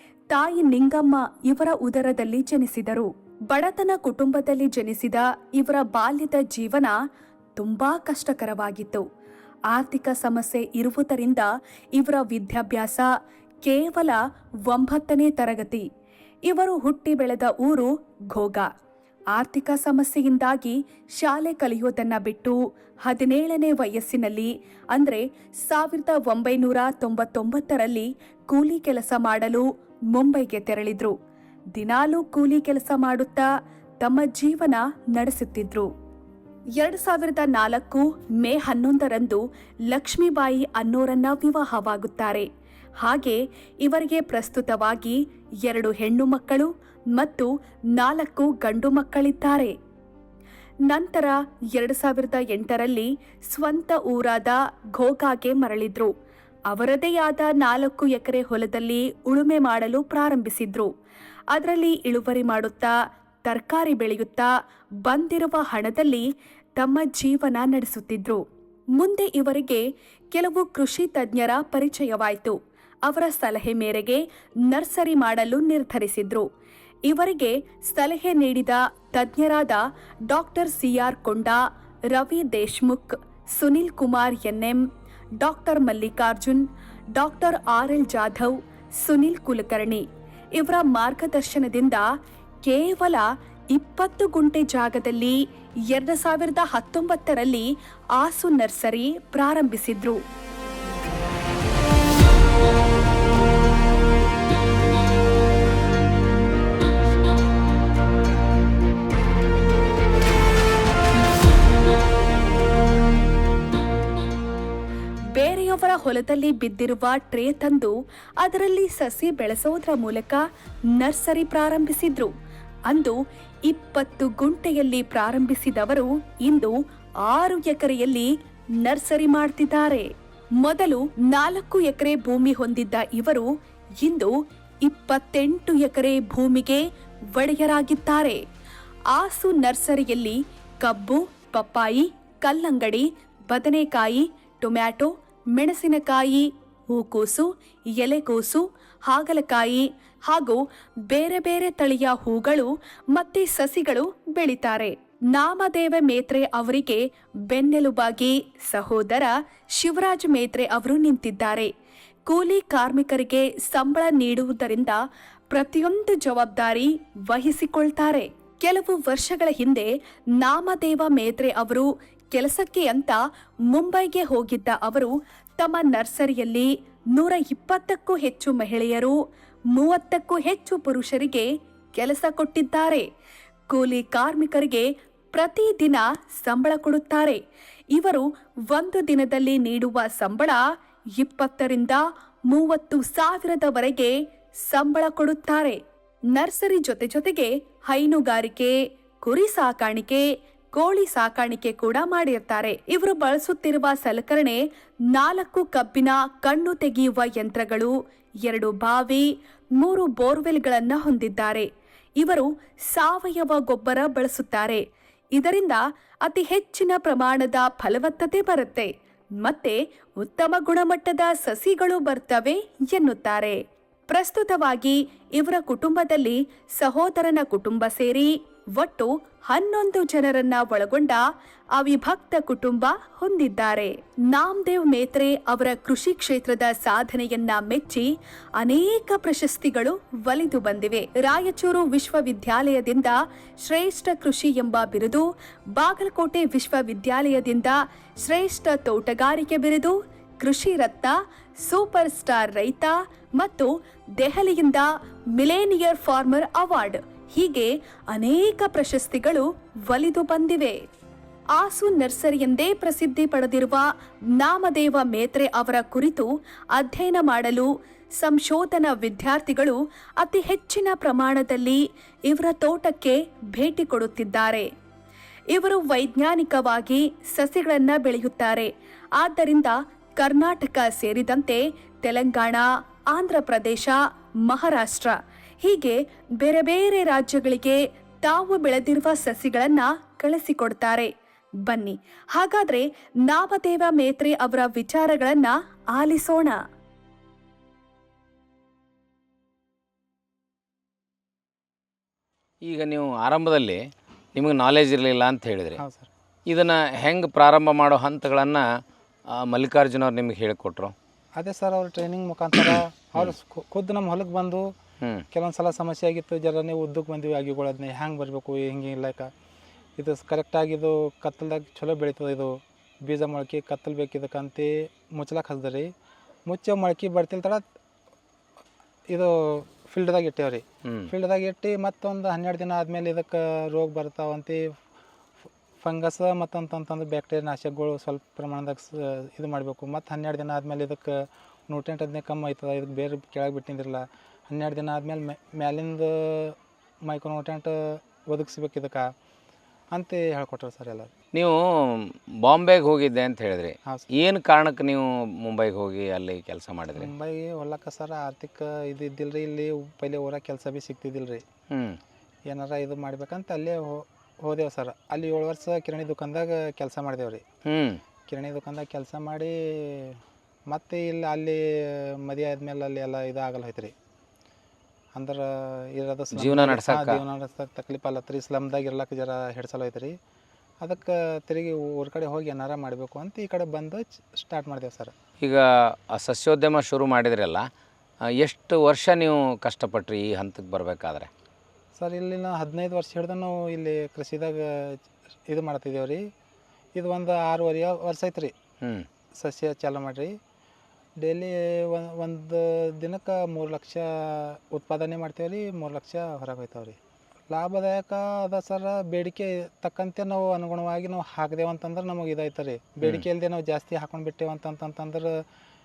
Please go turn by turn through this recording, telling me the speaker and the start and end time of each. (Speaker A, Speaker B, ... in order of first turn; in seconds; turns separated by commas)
Speaker A: 0.3-6.9, Speaker A: 7.6-9.1, Speaker A: 9.7-13.1, Speaker A: 13.7-15.9, Speaker A: 16.5-18.7, Speaker A: 19.3-31.2, Speaker A: 31.8-33.5, Speaker A: 34.0-35.9, Speaker A: 36.8-42.5, Speaker A: 43.0-49.8, Speaker A: 50.9-56.1, Speaker A: 56.7-60.9, Speaker A: 61.5-63.0, Speaker A: 63.5-64.5, Speaker A: 65.1-68.4, Speaker A: 69.0-76.5, Speaker A: 77.1-81.6, Speaker A: 82.1-84.8, Speaker A: 85.4-86.6, Speaker A: 87.2-90.0, Speaker A: 90.6-92.0, Speaker A: 92.7-95.4, Speaker A: 95.9-100.2, Speaker A: 115.3-120.4, Speaker A: 121.0-122.3, Speaker A: 122.9-123.2, Speaker A: 123.7-126.8, Speaker A: 127.3-128.3, Speaker A: 128.8-130.1, Speaker A: 130.6-133.5, Speaker A: 134.0-134.3, Speaker A: 134.8-138.4, Speaker A: 139.1-161.7, Speaker A: 162.3-165.0, Speaker A: 165.5-173.2, Speaker A: 173.7-179.2, Speaker A: 179.7-183.1, Speaker A: 183.7-187.4, Speaker A: 187.9-190.6, Speaker A: 191.2-194.1, Speaker A: 194.7-195.8, Speaker A: 196.3-204.6, Speaker A: 205.1-207.9, Speaker A: 208.4-209.3, Speaker A: 209.8-211.7, Speaker A: 212.2-214.8, Speaker A: 215.4-218.9, Speaker A: 219.4-231.2, Speaker A: 231.8-260.8, Speaker A: 261.6-267.7, Speaker A: 268.2-274.7, Speaker A: 275.5-291.1, Speaker A: 291.7-296.6, Speaker B: 302.7-303.8, Speaker B: 304.4-305.8, Speaker C: 305.8-306.1, Speaker B: 306.5-308.6, Speaker B: 309.3-310.9, Speaker C: 311.4-314.7, Speaker B: 315.0-315.3, Speaker C: 315.3-319.3, Speaker C: 320.0-325.9, Speaker C: 326.5-327.6, Speaker C: 329.1-334.6, Speaker B: 330.9-331.1, Speaker C: 335.8-349.1, Speaker C: 349.9-351.1, Speaker B: 351.3-357.1, Speaker C: 356.9-361.4, Speaker B: 361.7-362.0, Speaker C: 362.5-367.4, Speaker B: 367.7-368.0, Speaker C: 368.3-373.9, Speaker C: 375.1-380.2, Speaker B: 376.3-377.2, Speaker C: 380.8-385.1, Speaker B: 385.4-387.7, Speaker B: 388.3-391.3, Speaker C: 392.0-396.2, Speaker C: 396.9-398.5, Speaker B: 398.8-399.1, Speaker C: 399.4-400.3, Speaker C: 401.2-407.0, Speaker C: 407.5-415.4